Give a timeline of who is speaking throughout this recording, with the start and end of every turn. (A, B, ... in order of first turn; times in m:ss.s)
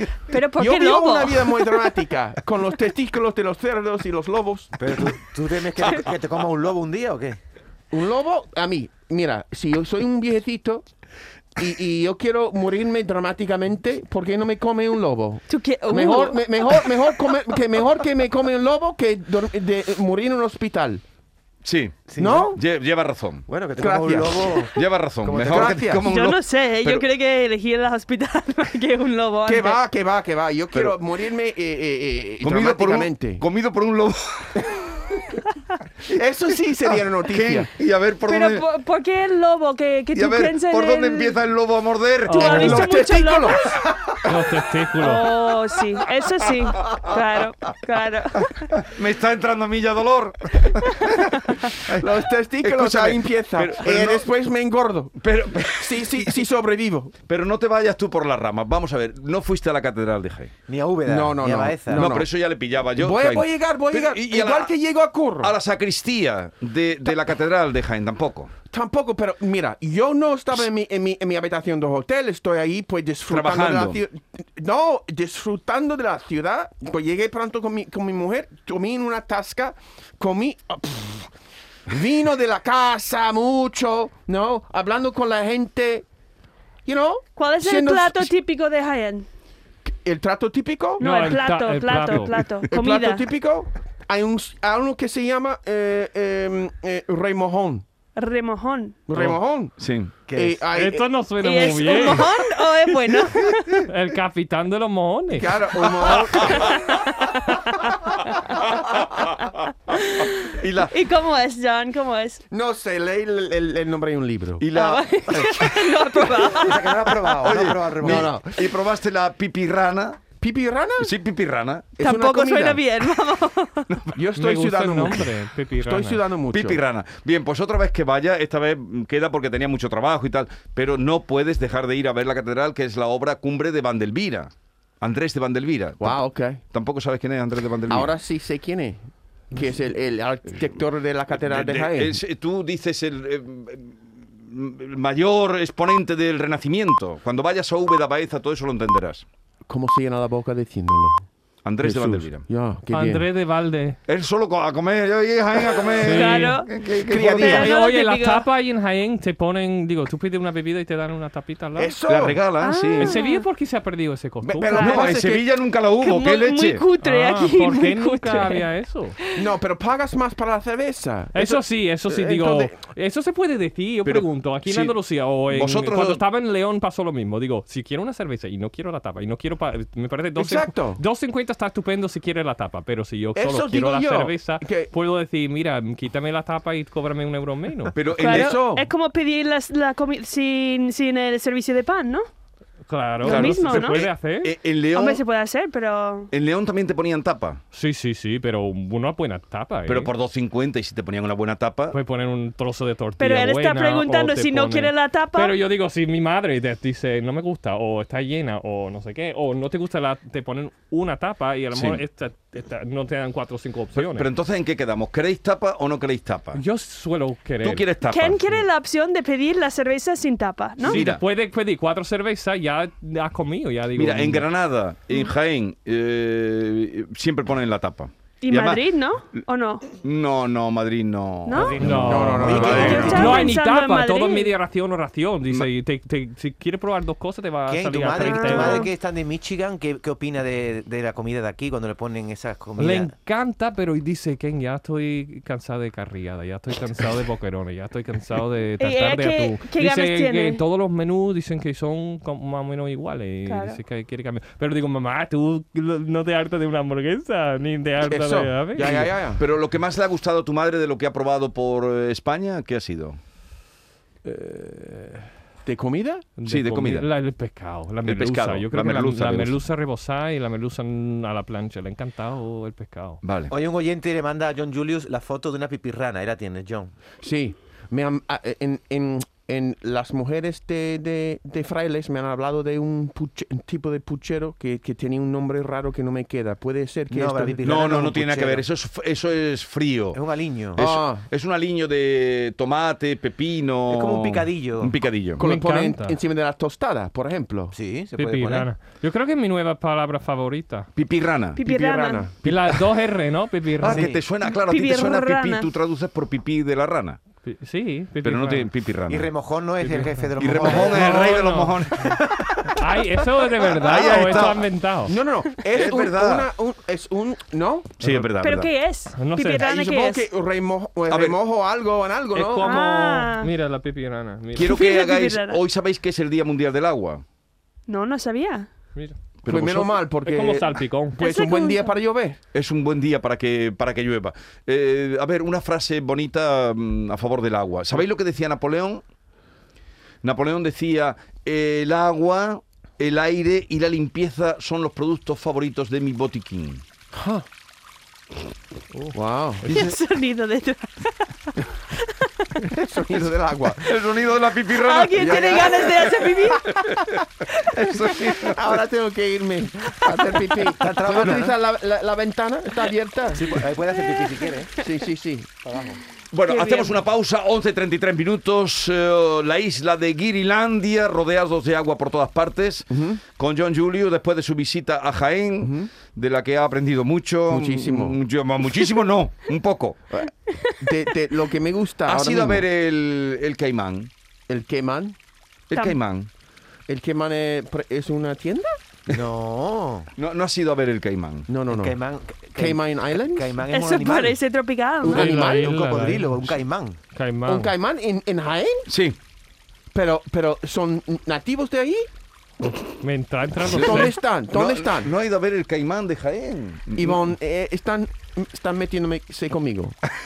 0:00.3-0:01.7 A
0:00.6-0:04.7 B
0:04.8-0:07.4 C
0:07.9-0:10.8 B
0:11.6-0:21.0 B
0:15.5-0:16.8 A
0:21.6-0:23.5 D
0:22.1-0:22.6 C
0:22.2-0:22.6 B
0:23.5-0:26.0 C
0:23.8-0:24.7 B
0:24.7-0:27.1 D
0:25.4-0:26.1 B
0:26.1-0:29.8 A
0:29.5-0:33.4 B
0:32.4-0:34.7 D
0:36.1-0:37.7 B
0:37.3-0:38.6 D
0:38.3-0:41.4 A
0:40.1-0:42.8 D
0:42.2-0:42.9 E
0:42.3-0:43.8 A
0:42.5-0:44.4 B
0:44.2-0:45.3 E
0:45.0-0:48.7 A
0:46.8-0:47.2 D
0:48.6-0:54.3 D
0:51.8-0:57.2 B
0:55.2-0:56.4 D
0:57.3-1:00.5 D
1:00.7-1:02.1 C
1:01.1-1:02.4 B
1:01.9-1:04.7 D
1:02.9-1:05.6 B
1:05.4-1:08.5 D
1:08.7-1:21.3 B
1:13.3-1:14.0 D
1:21.9-1:26.1 B
1:26.9-1:28.3 B
1:27.4-1:29.3 A
1:30.0-1:31.0 B
1:31.0-1:33.3 A
1:31.0-1:32.4 E
1:32.7-1:37.8 B
1:38.2-1:39.0 A
1:39.1-1:41.1 B
1:39.8-1:40.2 D
1:40.3-1:40.6 C
1:40.7-1:42.3 E
1:41.4-1:43.9 A
1:43.8-1:45.6 E
1:45.4-1:47.0 B
1:46.6-1:48.6 A
1:48.6-1:49.6 D
1:49.9-1:52.4 A
1:50.6-1:50.9 D
1:52.5-1:54.7 B
1:54.6-1:56.5 D
1:54.7-1:57.3 A
1:56.5-1:58.3 C
1:57.4-2:00.2 D
1:57.9-1:58.8 B
2:00.4-2:01.2 B
2:01.0-2:01.9 D
2:02.0-2:02.8 B
2:02.0-2:04.0 A
2:03.9-2:04.2 D
2:04.2-2:06.8 B
2:04.4-2:06.2 E
2:06.5-2:18.2 D
2:16.0-2:16.6 B
2:17.9-2:22.2 B
2:21.4-2:29.2 D
2:29.7-2:31.3 B
2:31.6-2:32.5 D
2:31.8-2:33.3 B
2:32.9-2:34.0 E
2:34.1-2:37.6 D
2:36.0-2:36.6 E
2:36.1-2:36.7 A
2:37.0-2:37.8 B
2:37.3-2:38.5 A
2:37.4-2:41.9 E
2:41.8-2:42.4 B
2:42.1-2:43.2 D
2:42.6-2:43.4 A
2:43.0-2:45.0 E
2:44.4-2:45.5 B
2:44.7-2:45.2 A
2:44.7-2:46.8 D
2:46.0-2:48.7 A
2:47.0-2:49.2 E
2:49.2-2:49.5 A
2:49.4-2:52.8 B
2:51.3-3:08.0 E
2:54.0-2:55.0 D
2:55.5-2:56.2 D
3:00.4-3:01.0 B
3:03.4-3:04.9 B
3:07.9-3:08.6 D
3:08.2-3:12.3 A
3:08.2-3:08.9 B
3:12.9-3:14.5 E
3:13.2-3:15.2 D
3:13.2-3:14.0 A
3:14.9-3:16.3 A
3:16.3-3:17.6 D
3:17.7-3:20.1 E
3:19.9-3:22.0 D
3:21.9-3:34.3 E
3:23.2-3:25.6 A
3:31.7-3:32.0 D
3:34.0-3:36.6 D
3:36.5-3:37.9 E
3:37.6-3:38.4 D
3:38.1-3:41.0 A
3:40.8-3:41.2 D
3:40.8-3:44.5 E
3:44.0-3:53.3 D
3:48.4-3:49.9 A
3:51.5-3:51.8 A
3:51.6-3:53.5 C
3:51.7-3:58.9 E
3:52.1-3:53.4 B
3:52.5-3:54.6 A
3:57.7-4:03.1 C
3:58.2-3:58.9 A
4:02.8-4:19.1 E
4:08.8-4:10.6 A
4:13.5-4:13.8 A
4:18.0-4:19.4 B
4:19.4-4:23.2 D
4:24.2-4:25.3 E
4:25.6-4:26.3 B
4:26.4-4:33.2 E
4:26.4-4:27.1 D
4:28.0-4:29.6 D
4:33.2-4:33.5 D
4:33.5-4:36.9 C
4:37.2-4:47.6 B
4:47.1-4:48.6 C
4:47.6-4:50.2 D
4:50.1-4:50.8 C
4:50.7-4:55.4 D
4:50.8-4:51.3 B
4:53.9-4:54.9 C
4:55.4-4:57.8 B
4:55.4-4:56.2 E
4:57.7-4:58.7 C
4:58.2-5:00.9 E
5:01.0-5:01.6 D
5:01.6-5:02.3 A
5:01.6-5:02.4 B
5:02.4-5:02.8 D
5:02.4-5:04.1 E
5:03.8-5:07.2 D
5:03.8-5:04.2 C
5:04.4-5:05.7 A
5:07.4-5:08.7 E
5:08.2-5:09.3 D
5:09.1-5:11.2 C
5:09.8-5:11.8 E
5:10.4-5:12.5 D
5:12.0-5:12.7 C
5:12.7-5:15.2 E
5:13.6-5:14.7 D
5:15.1-5:18.0 B
5:15.7-5:16.5 D
5:18.0-5:18.7 D
5:18.0-5:18.3 E
5:18.4-5:20.3 A
5:19.2-5:19.7 E
5:19.6-5:22.7 B
5:21.1-5:21.4 D
5:22.3-5:24.8 E
5:22.6-5:23.5 A
5:24.6-5:27.2 D
5:24.6-5:25.6 A
5:27.9-5:28.7 A
5:29.4-5:29.9 D
5:29.5-5:32.4 B
5:30.2-5:31.2 E
5:31.2-5:31.9 A
5:32.5-5:39.0 D
5:40.2-5:46.8 D
5:47.1-5:47.5 B
5:49.1-5:49.7 B
5:49.7-5:50.0 D
5:49.7-5:52.5 A
5:52.6-5:54.0 B
5:53.1-5:57.0 D
5:54.7-5:56.7 A
5:55.2-5:57.1 B
5:57.7-5:58.6 D
5:57.8-5:58.3 A
5:58.4-6:03.7 B
6:00.8-6:01.6 C
6:03.3-6:04.7 C
6:04.8-6:05.5 B
6:05.6-6:06.0 C
6:06.3-6:20.0 D
6:06.5-6:06.9 A
6:12.9-6:13.2 B
6:15.6-6:15.9 B
6:17.5-6:18.2 B
6:20.1-6:22.6 B
6:20.5-6:20.8 A
6:22.1-6:24.1 D
6:24.5-6:25.2 B
6:25.7-6:26.3 D
6:26.9-6:28.7 B
6:29.1-6:30.1 C
6:30.2-6:31.5 D
6:31.5-6:32.0 B
6:31.7-6:34.4 C
6:32.6-6:33.6 B
6:33.7-6:35.3 A
6:35.0-6:37.0 C
6:35.1-6:35.8 B
6:35.1-6:36.6 E
6:37.1-6:37.7 E
6:37.5-6:38.9 B
6:38.9-6:39.2 D
6:39.9-6:42.1 B
6:42.6-6:44.2 E
6:43.7-6:47.3 D
6:43.8-6:45.1 B
6:47.0-6:50.0 B